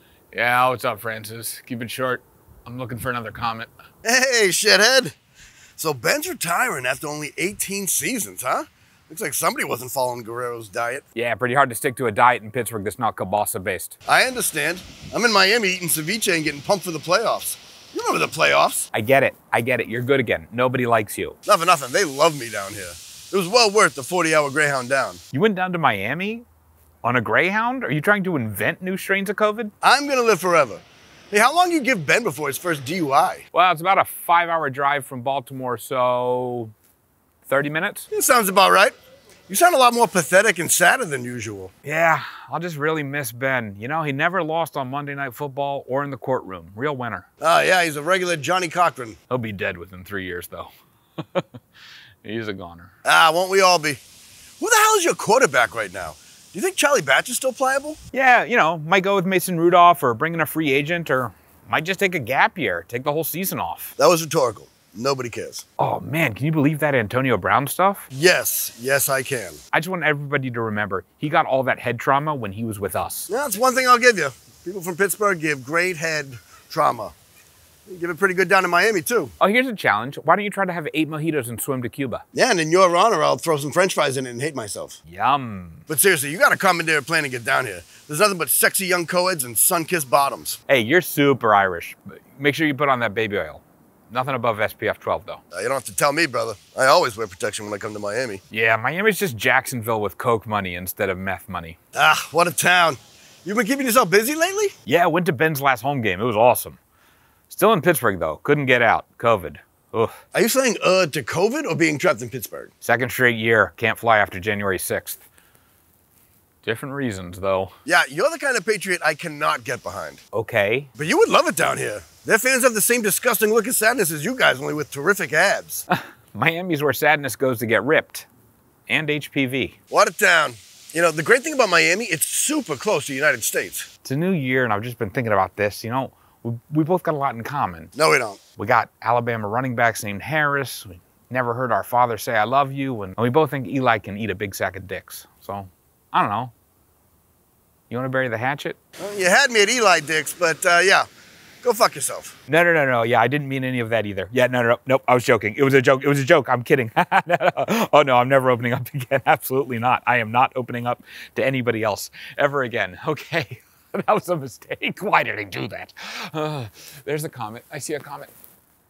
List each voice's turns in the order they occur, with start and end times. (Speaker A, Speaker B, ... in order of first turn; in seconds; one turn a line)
Speaker A: 0.3-3.7
Speaker B: 4.0-5.2
Speaker B: 5.8-11.0
Speaker A: 11.2-13.9
Speaker B: 14.1-18.9
Speaker A: 18.9-21.4
Speaker B: 21.5-25.2
Speaker A: 25.3-26.5
Speaker A: 27.0-29.7
Speaker B: 29.8-33.4
Speaker A: 33.5-36.7
Speaker A: 37.5-38.1
Speaker B: 38.1-38.9
Speaker B: 39.5-41.7
Speaker A: 41.9-47.3
Speaker B: 47.4-49.2
Speaker A: 49.3-50.7
Speaker A: 52.2-52.9
Speaker B: 53.0-54.0
Speaker B: 54.6-58.0
Speaker A: 58.1-63.9
Speaker B: 64.0-65.6
Speaker A: 65.8-68.1
Speaker B: 68.1-69.6
Speaker A: 69.7-73.3
Speaker B: 73.3-77.1
Speaker B: 77.9-79.3
Speaker A: 79.4-82.2
Speaker B: 82.3-85.0
Speaker A: 85.1-85.9
Speaker B: 85.9-90.6
Speaker A: 90.7-95.4
Speaker B: 95.5-98.4
Speaker A: 98.5-101.8
Speaker B: 101.9-104.7
Speaker A: 104.9-106.8
Speaker A: 107.5-110.2
Speaker B: 110.3-112.7
Speaker A: 112.8-115.2
Speaker A: 116.6-117.8
Speaker B: 117.9-120.2
Speaker A: 120.3-120.9
Speaker B: 121.0-125.8
Speaker A: 125.9-128.3
Speaker A: 128.9-129.7
Speaker B: 129.9-133.9
Speaker A: 134.0-137.9
Speaker B: 137.9-138.4
Speaker A: 138.6-146.5
Speaker A: 147.9-148.8
Speaker B: 149.0-151.1
Speaker B: 151.6-152.4
Speaker A: 152.5-168.3